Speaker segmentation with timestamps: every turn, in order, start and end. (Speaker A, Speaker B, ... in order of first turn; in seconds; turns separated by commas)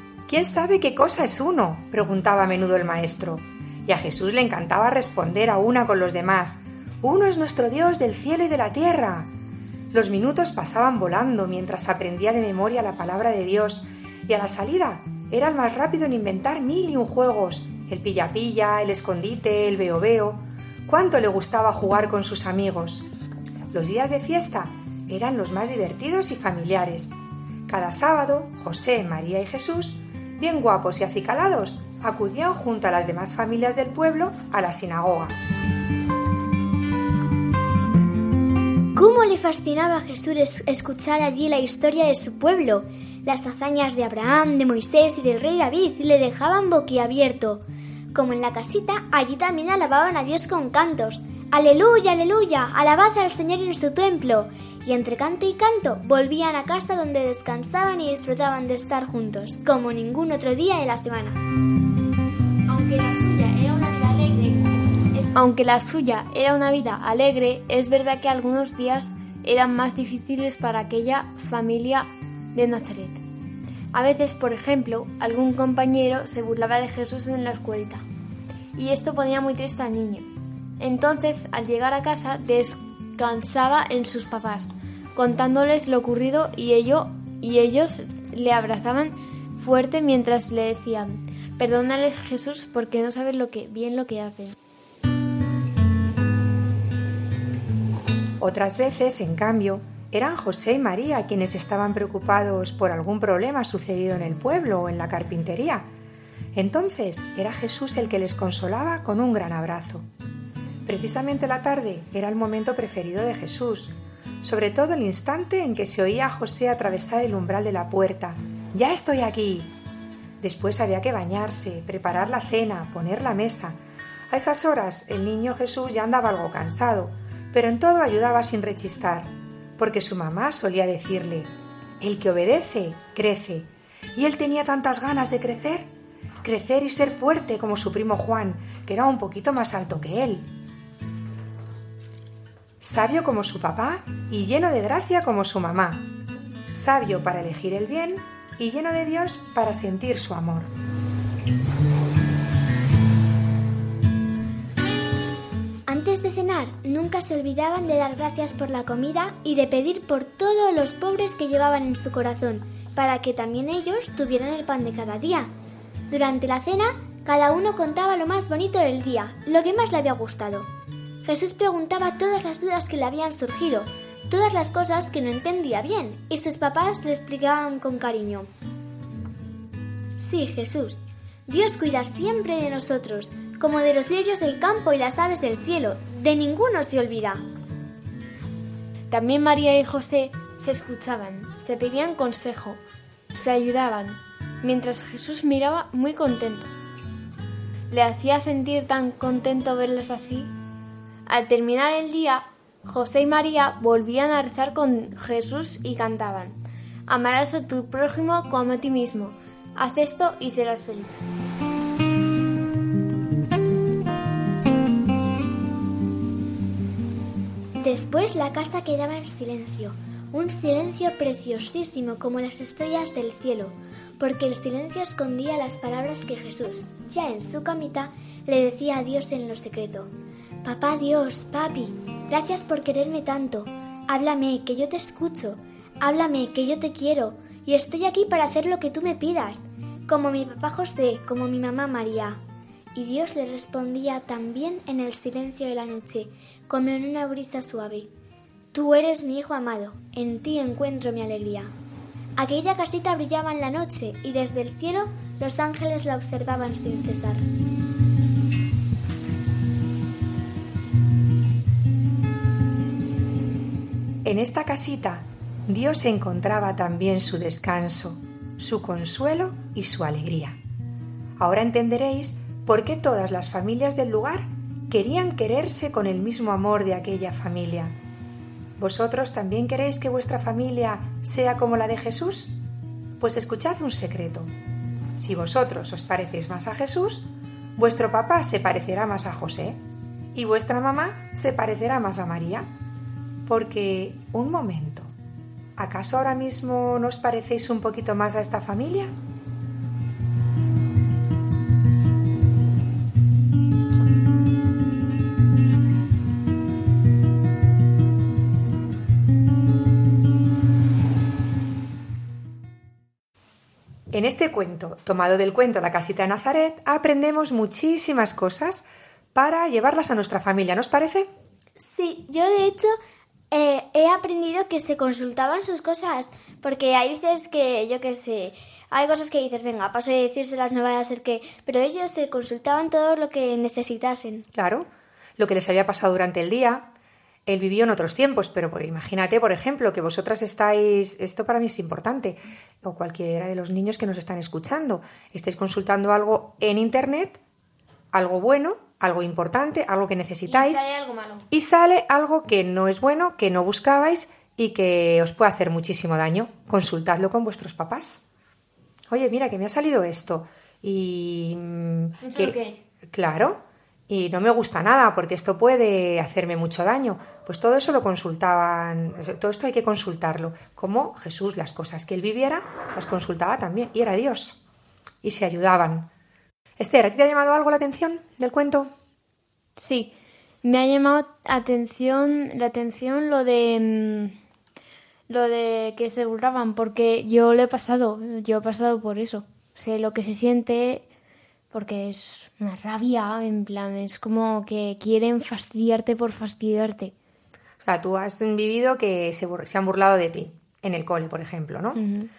Speaker A: 0.3-9.3, Speaker A: 9.9-23.1, Speaker A: 23.7-35.3, Speaker B: 38.9-61.4, Speaker C: 62.7-73.2, Speaker C: 73.9-78.0, Speaker C: 78.8-94.5, Speaker A: 98.4-105.9, Speaker A: 106.5-110.1, Speaker A: 110.8-119.7, Speaker A: 120.4-123.8, Speaker A: 124.3-135.9, Speaker A: 136.4-140.5, Speaker A: 142.8-146.1, Speaker A: 146.7-150.7, Speaker B: 155.9-165.5, Speaker B: 166.1-170.7, Speaker B: 171.2-178.5, Speaker B: 180.2-187.4, Speaker C: 189.1-192.8, Speaker C: 193.3-196.7, Speaker C: 197.9-200.5, Speaker C: 201.3-206.6, Speaker C: 207.1-211.2, Speaker B: 217.8-230.1, Speaker B: 230.6-242.4, Speaker B: 242.9-248.1, Speaker B: 248.7-251.7, Speaker B: 252.4-257.4, Speaker A: 264.2-270.6, Speaker A: 271.4-277.9, Speaker A: 278.8-282.5, Speaker A: 283.2-284.5, Speaker A: 285.2-289.8, Speaker A: 290.3-292.7, Speaker A: 293.4-295.1, Speaker A: 295.8-299.1, Speaker A: 314.1-321.3, Speaker B: 321.8-322.9, Speaker B: 323.5-334.5, Speaker A: 334.5-336.9, Speaker A: 337.5-347.4, Speaker A: 348.1-350.9, Speaker C: 350.5-351.5, Speaker A: 351.5-358.2, Speaker A: 359.1-362.6, Speaker C: 362.2-362.8, Speaker A: 363.1-374.6, Speaker A: 375.2-376.1, Speaker A: 376.8-378.9, Speaker C: 379.8-380.1, Speaker C: 380.6-384.4, Speaker C: 385.3-391.0, Speaker C: 391.7-397.1, Speaker A: 397.8-402.0, Speaker C: 402.0-402.3